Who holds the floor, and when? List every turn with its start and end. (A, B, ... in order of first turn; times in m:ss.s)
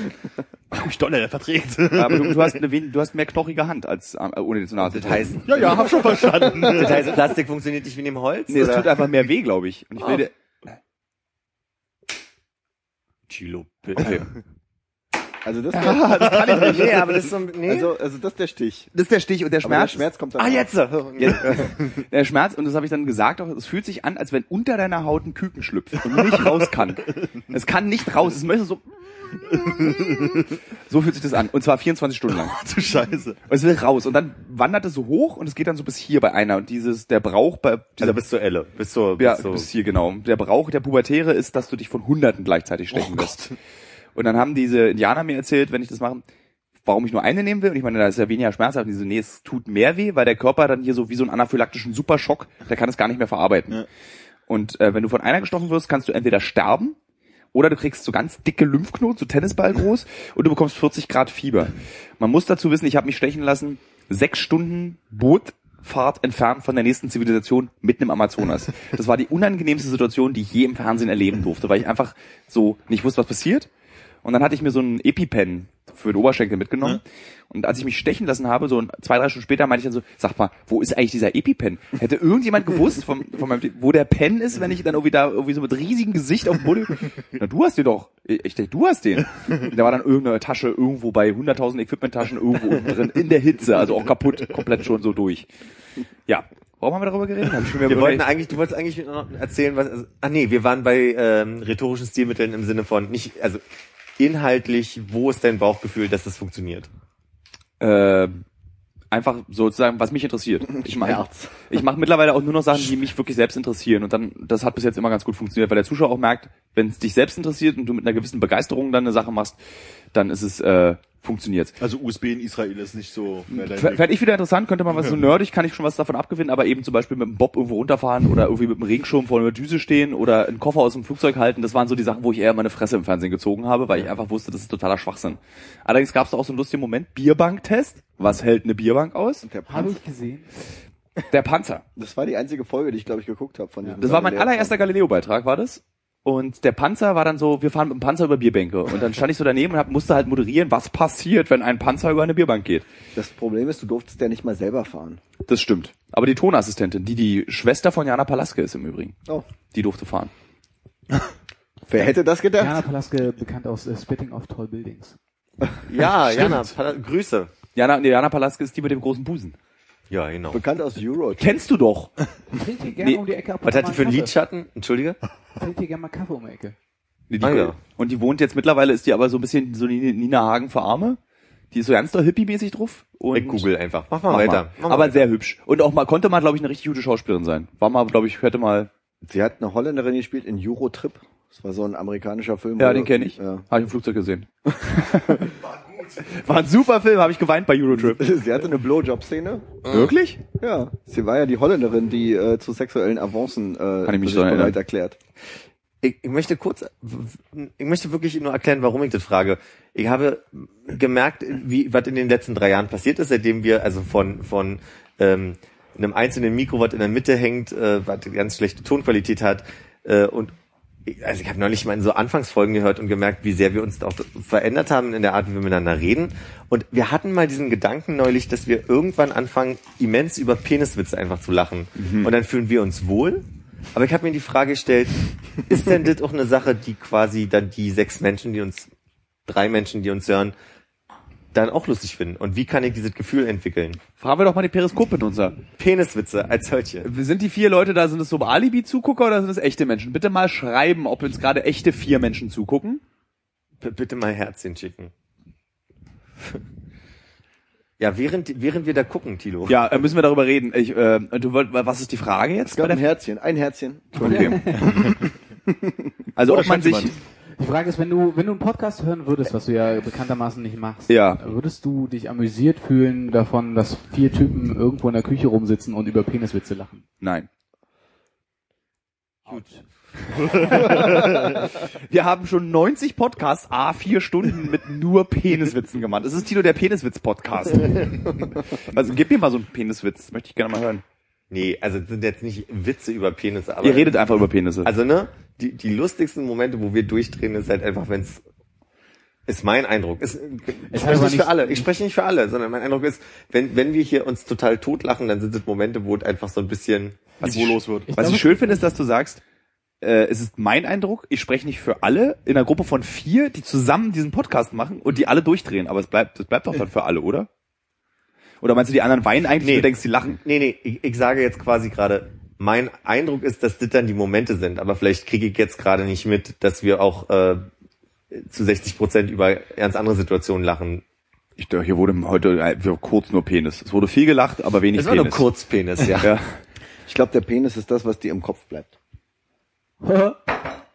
0:00.7-0:02.6 A
0:01.9-0:05.6 B
0:04.8-0:09.1 C
0:05.4-0:07.1 A
0:08.5-0:10.3 B
0:13.3-0:14.2 C
0:14.0-0:14.2 B
0:15.4-0:16.6 D
0:15.7-0:17.0 B
0:16.5-0:17.9 C
0:17.7-0:18.9 D
0:18.9-0:20.1 B
0:19.6-0:20.7 D
0:20.4-0:21.8 C
0:21.2-0:32.6 B
0:26.1-0:26.7 A
0:29.4-0:30.5 A
0:32.4-0:33.4 A
0:33.5-0:38.2 B
0:38.0-0:39.7 C
0:39.2-0:43.4 B
0:42.9-0:43.6 A
0:44.2-0:46.2 B
0:46.8-0:53.8 B
0:54.5-0:57.0 B
0:57.5-1:13.7 B
1:14.2-1:35.5 B
1:36.3-1:38.3 B
1:37.8-1:43.6 C
1:44.2-1:46.9 C
1:47.8-1:48.4 B
1:49.1-1:59.6 B
1:50.7-1:51.6 D
2:00.1-2:01.8 B
2:01.8-2:04.0 A
2:03.5-2:19.4 B
2:04.9-2:05.2 A
2:19.4-2:20.0 D
2:19.7-2:20.5 E
2:21.3-2:21.8 B
2:22.0-2:24.7 D
2:24.0-2:32.9 B
2:33.2-2:35.2 D
2:35.5-2:39.2 B
2:39.7-2:40.3 B
2:41.9-2:42.8 D
2:42.6-2:45.2 E
2:45.9-2:47.5 C
2:46.2-2:46.7 B
2:47.8-2:49.6 B
2:50.1-2:50.6 C
2:50.5-2:51.5 D
2:51.4-2:52.1 B
2:52.5-2:54.4 E
2:53.6-2:55.2 C
2:55.6-2:56.8 E
2:57.3-3:01.2 B
2:57.4-2:57.8 C
3:01.7-3:03.7 B
3:03.3-3:05.3 C
3:04.3-3:08.9 B
3:09.2-3:13.7 D
3:12.8-3:15.5 B
3:16.2-3:18.3 B
3:17.9-3:19.7 D
3:19.9-3:20.4 B
3:20.6-3:25.2 D
3:24.1-3:24.8 B
3:26.0-3:40.5 C
3:41.1-3:58.9 C
3:52.0-3:52.3 B
3:59.5-4:00.5 C
4:01.5-4:04.0 C
4:04.2-4:05.6 B
4:05.8-4:07.1 C
4:07.0-4:13.0 B
4:13.8-4:15.1 C
4:18.0-4:19.8 C
4:19.7-4:23.0 B
4:22.6-4:24.9 D
4:24.2-4:24.8 B
4:24.2-4:25.0 E
4:24.8-4:25.2 A
4:26.4-4:27.1 B
4:26.4-4:27.1 A
4:27.6-4:37.0 E
4:31.1-4:31.4 B
4:37.2-4:37.5 B
4:39.5-4:39.8 E
4:40.5-4:41.5 A
4:40.7-4:51.0 B
4:51.5-4:54.2 C
4:53.8-4:54.9 B
4:54.8-4:58.4 C
4:59.5-5:07.4 C
5:00.9-5:01.9 E
5:07.4-5:08.1 A
5:07.4-5:09.4 B
5:08.1-5:08.9 E
5:10.0-5:17.5 B
5:18.6-5:20.4 B
5:19.6-5:27.7 C
5:28.3-5:31.0 C
5:31.6-5:35.4 B
5:34.9-5:36.4 C
5:36.2-5:36.5 B
5:37.1-5:38.9 D
5:40.0-5:40.4 E